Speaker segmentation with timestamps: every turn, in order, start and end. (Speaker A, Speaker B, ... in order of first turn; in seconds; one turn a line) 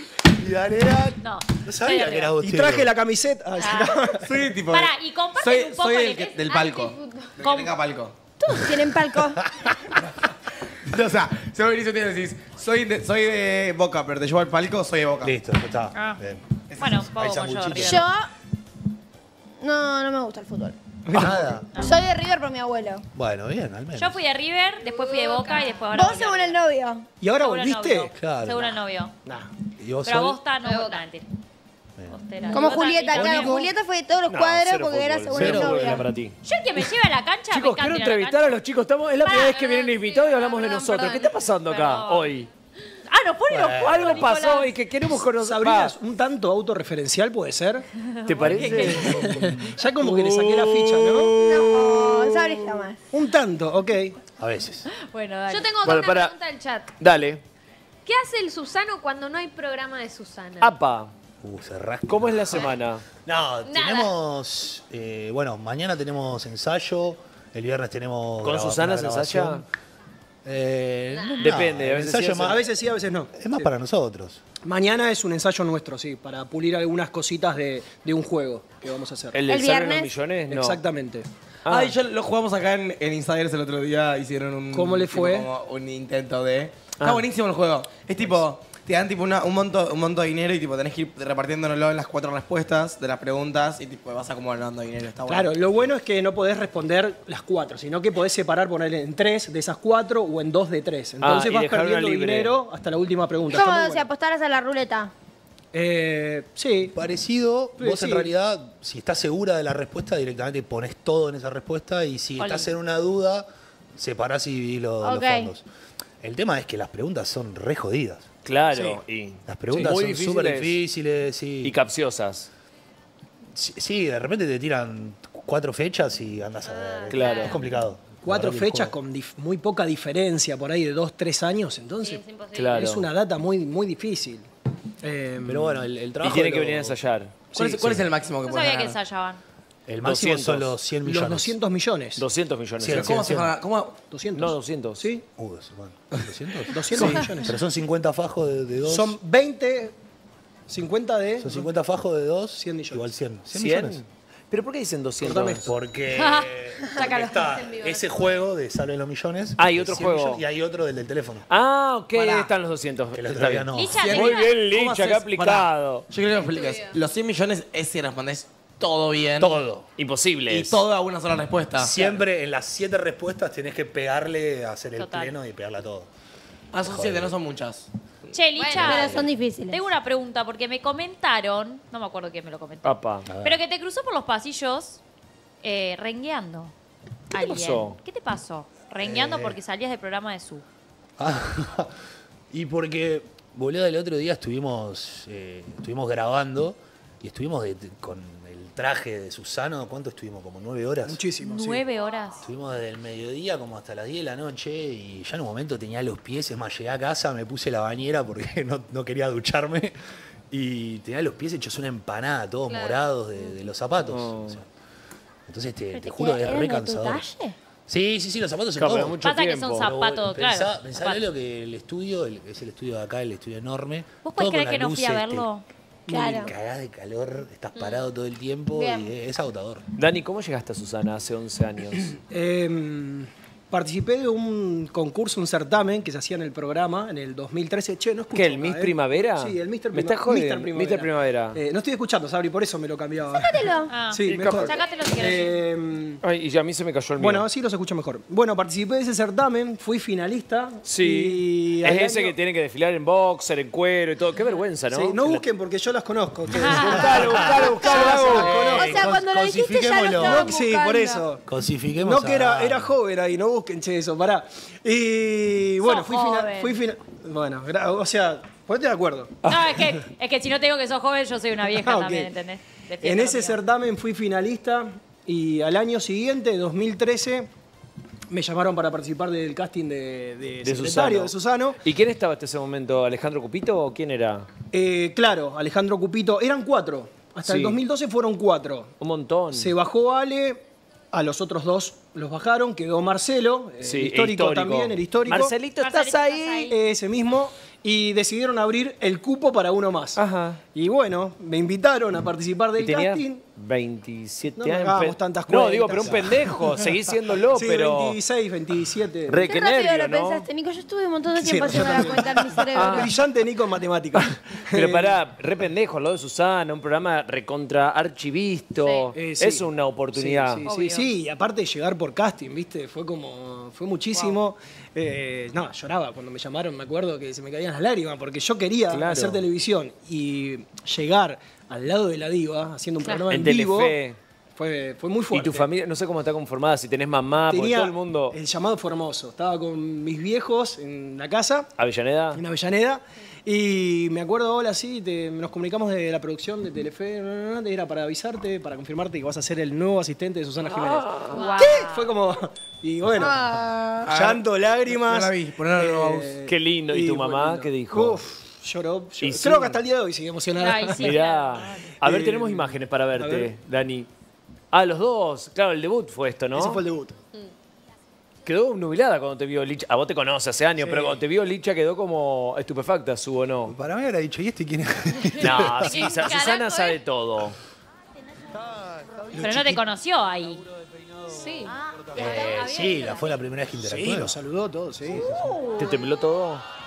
Speaker A: 0.2-2.9
Speaker B: 1.2-2.4
Speaker C: 2.4-4.5
Speaker B: 3.6-4.0
Speaker D: 4.2-8.2
Speaker B: 4.7-6.4
Speaker E: 6.4-7.4
Speaker B: 7.4-7.8
Speaker F: 8.4-9.4
Speaker A: 9.4-9.7
Speaker D: 10.8-15.3
Speaker A: 15.2-16.4
Speaker B: 15.9-16.2
Speaker D: 16.7-17.0
Speaker B: 16.8-18.1
Speaker A: 17.0-18.1
Speaker F: 17.8-18.3
Speaker F: 19.6-20.8
Speaker C: 21.1-21.6
Speaker A: 21.1-21.7
Speaker B: 21.7-22.0
Speaker F: 21.8-23.1
Speaker A: 23.1-24.3
Speaker B: 24.0-26.6
Speaker E: 24.8-25.9
Speaker F: 25.9-27.1
Speaker C: 27.2-28.1
Speaker B: 27.4-29.1
Speaker A: 28.1-28.8
Speaker C: 29.2-29.5
Speaker A: 29.8-30.5
Speaker B: 30.1-31.3
Speaker E: 30.6-31.1
Speaker A: 32.0-33.8
Speaker B: 32.1-33.6
Speaker F: 32.5-36.1
Speaker G: 34.3-36.4
Speaker A: 35.3-36.1
Speaker B: 36.4-38.6
Speaker G: 37.5-42.5
Speaker B: 39.2-39.9
Speaker E: 39.4-41.4
Speaker B: 41.7-42.4
Speaker B: 43.1-44.7
Speaker A: 43.5-44.4
Speaker G: 43.7-45.9
Speaker C: 45.3-47.9
Speaker B: 48.0-49.2
Speaker G: 48.3-49.2
Speaker C: 48.7-51.3
Speaker A: 49.0-49.8
Speaker G: 50.0-52.9
Speaker F: 51.4-53.0
Speaker C: 53.1-54.1
Speaker A: 54.4-54.9
Speaker B: 54.9-55.7
Speaker E: 55.5-56.9
Speaker G: 55.8-56.3
Speaker G: 57.0-57.4
Speaker E: 58.0-60.7
Speaker G: 60.6-61.1
Speaker A: 61.4-69.7
Speaker G: 62.1-63.1
Speaker E: 63.6-64.1
Speaker G: 68.4-69.7
Speaker A: 70.5-72.7
Speaker E: 71.1-71.5
Speaker G: 71.4-72.6
Speaker C: 72.4-73.7
Speaker A: 73.3-74.4
Speaker C: 74.6-79.4
Speaker G: 79.3-80.8
Speaker F: 79.5-80.1
Speaker C: 80.5-81.3
Speaker G: 81.7-82.0
Speaker D: 81.7-95.7
Speaker C: 84.7-85.5
Speaker G: 87.0-87.2
Speaker C: 95.3-104.1
Speaker G: 101.2-102.5
Speaker F: 103.5-105.1
Speaker C: 105.7-106.9
Speaker A: 106.9-115.7
Speaker C: 107.8-108.3
Speaker B: 112.4-112.7
Speaker F: 115.0-115.5
Speaker A: 116.2-118.3
Speaker G: 118.4-120.8
Speaker C: 118.7-119.0
Speaker A: 119.5-121.8
Speaker G: 121.6-122.5
Speaker A: 123.5-129.0
Speaker E: 126.6-127.6
Speaker G: 127.1-127.5
Speaker B: 127.2-127.6
Speaker C: 128.2-134.5
Speaker E: 132.0-132.9
Speaker G: 132.6-133.1
Speaker C: 135.0-135.8
Speaker A: 135.4-137.0
Speaker G: 136.2-137.3
Speaker C: 137.5-137.8
Speaker D: 137.5-139.0
Speaker A: 137.8-138.1
Speaker B: 138.4-139.4
Speaker A: 139.9-141.6
Speaker G: 140.0-140.8
Speaker C: 141.1-142.2
Speaker G: 142.2-143.2
Speaker A: 142.8-143.6
Speaker D: 142.8-144.0
Speaker C: 144.1-145.2
Speaker G: 144.3-145.1
Speaker A: 145.4-149.2
Speaker C: 146.7-147.5
Speaker G: 146.9-147.2
Speaker C: 148.9-149.9
Speaker C: 150.7-151.7
Speaker A: 151.4-154.0
Speaker C: 152.6-153.1
Speaker G: 153.5-155.7
Speaker C: 155.2-155.7
Speaker A: 155.7-161.5
Speaker B: 156.1-157.6
Speaker E: 157.4-158.4
Speaker G: 159.6-160.4
Speaker G: 161.5-166.1
Speaker D: 162.1-162.5
Speaker A: 163.1-164.3
Speaker B: 163.7-164.6
Speaker D: 164.0-169.6
Speaker E: 166.3-167.0
Speaker A: 169.4-169.9
Speaker G: 170.0-170.8
Speaker D: 170.5-172.2
Speaker A: 171.8-176.1
Speaker B: 175.0-175.3
Speaker D: 176.7-178.3
Speaker A: 176.8-177.4
Speaker B: 178.3-185.0
Speaker E: 178.6-179.2
Speaker A: 178.8-179.3
Speaker F: 178.8-179.8
Speaker G: 182.8-183.3
Speaker A: 183.3-183.6
Speaker B: 185.6-186.7
Speaker B: 187.3-190.7
Speaker G: 187.4-188.0
Speaker A: 189.0-189.6
Speaker A: 191.2-191.9
Speaker A: 192.5-201.2
Speaker C: 201.1-201.9
Speaker B: 201.4-202.5
Speaker A: 202.4-210.0
Speaker A: 210.5-214.7
Speaker E: 212.7-213.0
Speaker G: 214.1-214.6
Speaker A: 215.5-217.3
Speaker F: 215.9-217.6
Speaker A: 217.9-225.5
Speaker G: 218.8-219.9
Speaker B: 219.2-221.3
Speaker B: 224.2-225.7
Speaker C: 226.1-226.5
Speaker F: 226.1-226.5
Speaker A: 226.3-229.8
Speaker F: 228.7-229.1
Speaker G: 230.0-232.2
Speaker C: 232.2-246.2
Speaker G: 238.3-241.6
Speaker F: 243.3-243.9
Speaker B: 243.9-245.6
Speaker G: 244.2-244.8
Speaker G: 246.2-247.5
Speaker C: 247.2-252.4
Speaker G: 250.8-255.4
Speaker C: 254.9-259.0
Speaker B: 256.6-257.1
Speaker G: 256.6-258.6
Speaker A: 256.8-260.6
Speaker F: 257.4-261.3
Speaker C: 260.2-261.4
Speaker A: 261.5-262.9
Speaker C: 262.0-270.0
Speaker B: 265.8-266.8
Speaker B: 269.5-273.6
Speaker C: 271.7-272.3
Speaker C: 273.0-277.5
Speaker C: 278.3-281.8
Speaker G: 280.6-284.5
Speaker C: 284.7-289.0
Speaker G: 287.4-287.8
Speaker G: 289.0-289.7
Speaker C: 289.5-295.6
Speaker G: 293.8-296.7
Speaker B: 295.8-296.8
Speaker C: 296.7-300.2
Speaker G: 300.2-300.6
Speaker C: 300.7-303.4
Speaker G: 302.8-308.2
Speaker C: 304.6-309.5
Speaker G: 309.3-310.5
Speaker F: 309.4-313.1
Speaker C: 311.4-315.2
Speaker G: 312.7-313.1
Speaker G: 314.2-320.6
Speaker B: 318.8-319.1
Speaker C: 319.1-334.0
Speaker B: 320.7-321.1
Speaker G: 328.9-329.4
Speaker G: 333.3-334.2
Speaker C: 334.6-335.7
Speaker G: 335.3-338.4
Speaker C: 337.5-341.7
Speaker G: 341.8-342.4
Speaker C: 342.3-361.2
Speaker G: 350.7-351.4
Speaker E: 351.3-351.8
Speaker B: 351.3-352.1
Speaker F: 353.2-353.7
Speaker D: 354.0-356.3
Speaker G: 356.5-358.2
Speaker G: 359.2-359.8
Speaker B: 360.6-361.9
Speaker G: 361.0-364.1
Speaker C: 362.0-363.6
Speaker G: 364.7-366.8
Speaker C: 366.5-367.2
Speaker G: 368.4-373.8
Speaker C: 370.8-371.2
Speaker A: 373.6-376.4
Speaker G: 375.4-377.6
Speaker B: 375.6-377.0
Speaker A: 378.5-379.9
Speaker B: 379.3-380.6
Speaker A: 380.5-384.4
Speaker E: 381.3-381.8
Speaker B: 382.0-382.9
Speaker G: 383.9-384.2
Speaker C: 383.9-385.2
Speaker A: 385.0-385.6
Speaker F: 385.1-386.0
Speaker G: 385.8-386.6